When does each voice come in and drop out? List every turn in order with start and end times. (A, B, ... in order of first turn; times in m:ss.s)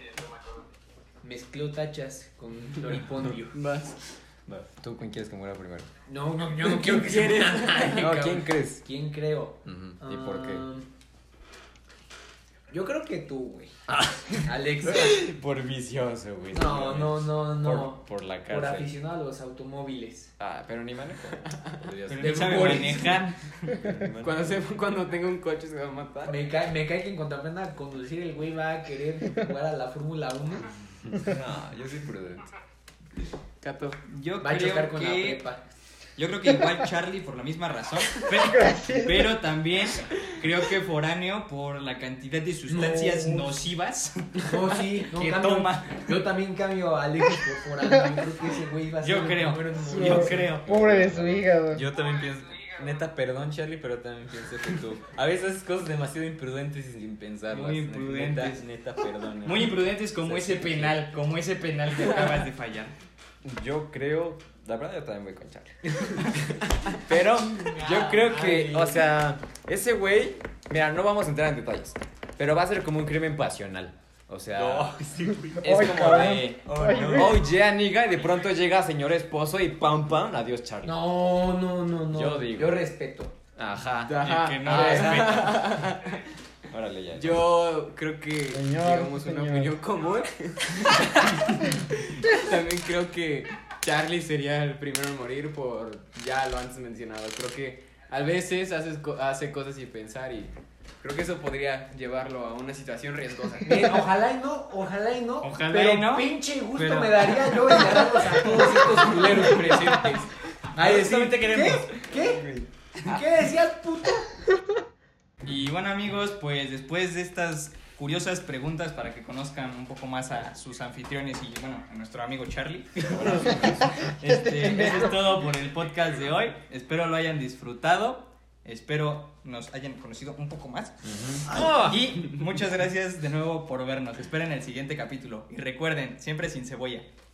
0:01.2-0:03.6 A
0:03.5-0:03.9 B
0:04.5-0:05.9 C
0:06.1-0:10.9 A
0:06.7-0:08.8 C
0:09.6-0:10.7 C
0:12.7-0:13.8 A
0:13.9-0:14.2 C
0:14.3-0:15.2 A
0:14.8-0:18.9 C
0:16.5-0:20.3 A
0:20.4-0:22.8 C
0:22.1-0:23.8 D
0:22.2-0:23.2 B
0:23.7-0:24.6 C
0:24.2-0:26.3 B
0:26.2-0:30.7 A
0:31.1-0:32.5 C
0:33.6-0:34.0 B
0:34.0-0:35.4 D
0:34.4-0:35.6 A
0:36.2-0:46.2 D
0:38.3-0:39.3 E
0:44.4-0:50.4 A
0:49.0-0:50.7 D
0:49.9-0:51.8 E
0:50.4-0:51.5 C
0:51.7-1:01.1 F
0:57.5-0:58.6 D
0:59.4-1:02.9 D
1:03.4-1:06.2 C
1:06.9-1:15.0 C
1:14.5-1:17.4 F
1:15.6-1:17.4 E
1:15.6-1:21.0 C
1:20.8-1:23.3 A
1:22.1-1:22.9 C
1:23.5-1:25.6 C
1:24.1-1:26.2 B
1:24.2-1:25.8 D
1:26.7-1:27.5 C
1:27.2-1:44.0 B
1:28.5-1:29.8 E
1:43.6-1:50.0 A
1:45.4-1:47.8 D
1:48.5-1:50.3 B
1:50.7-1:52.5 A
1:50.8-1:51.9 D
1:51.0-1:51.7 B
1:52.2-1:52.7 C
1:53.0-1:54.3 A
1:55.4-2:17.1 D
2:04.2-2:05.2 E
2:11.0-2:12.0 C